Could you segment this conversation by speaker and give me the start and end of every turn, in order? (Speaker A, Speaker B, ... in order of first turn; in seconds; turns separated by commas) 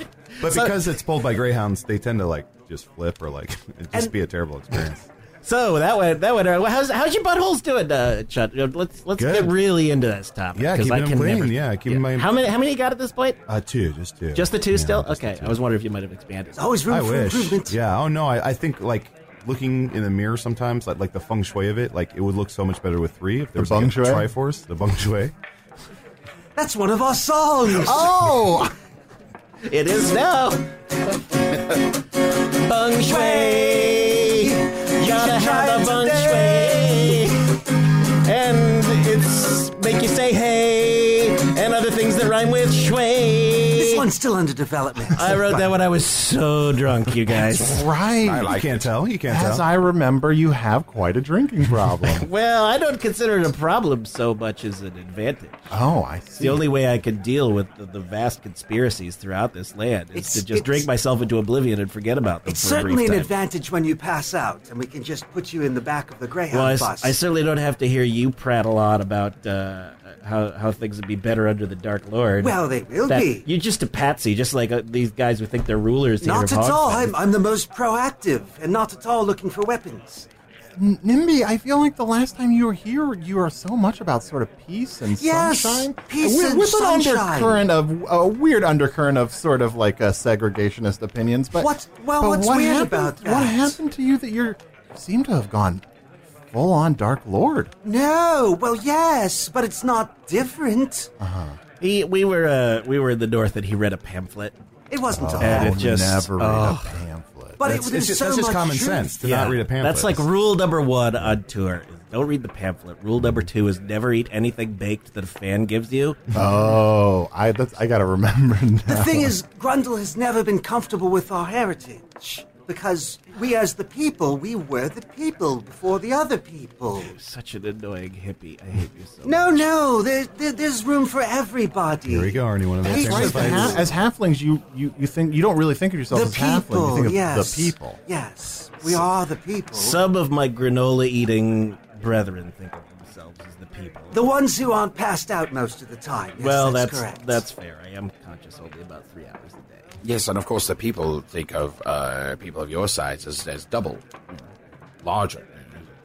Speaker A: 0.4-5.1, Speaker B: 0.4-0.7, Speaker B: 5.4-13.4, Speaker A: 9.2-9.6, Speaker A: 10.5-12.4, Speaker A: 13.5-15.6, Speaker B: 14.3-16.6, Speaker C: 16.5-17.8, Speaker A: 16.9-25.3, Speaker D: 23.6-24.3, Speaker C: 26.6-28.4, Speaker D: 27.7-28.7, Speaker B: 29.7-30.7, Speaker B: 32.6-37.5, Speaker C: 33.0-37.3, Speaker B: 38.2-44.0, Speaker C: 43.7-45.6, Speaker B: 45.1-47.8, Speaker D: 47.4-48.5, Speaker E: 48.2-48.9, Speaker A: 48.4-49.6, Speaker D: 49.3-52.3, Speaker B: 52.1-55.7, Speaker D: 55.7-56.6, Speaker B: 56.4-63.3, Speaker C: 60.1-60.9, Speaker C: 62.5-67.2, Speaker B: 66.5-72.5, Speaker C: 72.4-73.5, Speaker B: 73.1-77.1, Speaker C: 76.2-80.3, Speaker D: 80.8-95.8, Speaker C: 85.2-87.7, Speaker C: 91.5-93.8, Speaker D: 96.5-97.7, Speaker C: 97.8-101.1, Speaker D: 101.2-101.6, Speaker B: 101.8-104.5, Speaker C: 104.9-106.0, Speaker D: 105.1-107.6, Speaker B: 105.3-107.0, Speaker C: 107.6-109.3, Speaker A: 107.6-110.2, Speaker B: 109.2-116.2, Speaker D: 116.3-119.3, Speaker C: 118.9-127.1, Speaker B: 127.0-129.7, Speaker C: 129.2-133.9, Speaker A: 132.1-133.9, Speaker D: 132.8-138.0, Speaker C: 136.1-140.0, Speaker B: 139.7-144.2, Speaker C: 144.1-147.4, Speaker B: 146.4-149.9, Speaker E: 150.0-154.4, Speaker E: 155.0-155.9